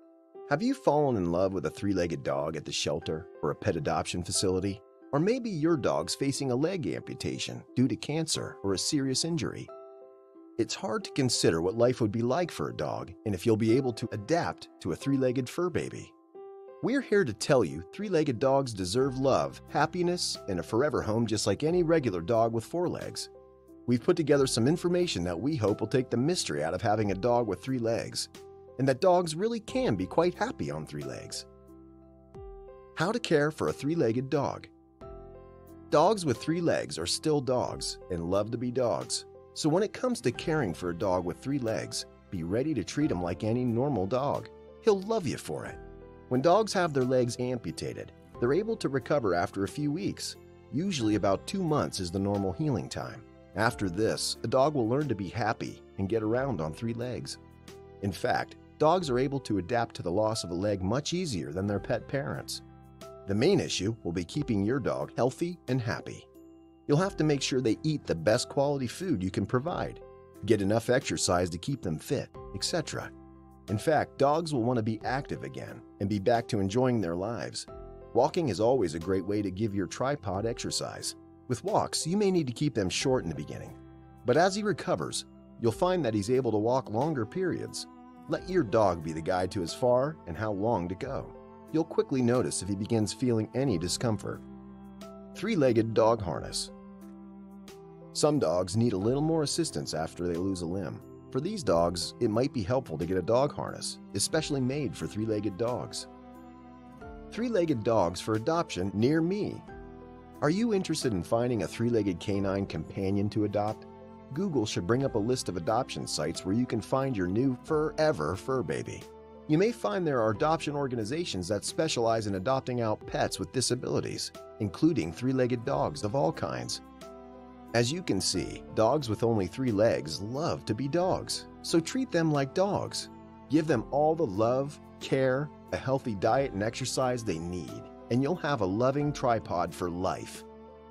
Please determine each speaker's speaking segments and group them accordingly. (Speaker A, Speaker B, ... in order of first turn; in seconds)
Speaker A: 0.5-9.7, 10.6-16.1, 16.8-23.3, 23.9-31.4, 33.0-34.7, 35.9-57.4, 58.0-62.6, 63.3-66.3, 66.9-73.1, 73.7-94.4, 95.3-96.7, 98.1-106.1, 107.3-109.7, 110.4-126.8, 127.7-140.5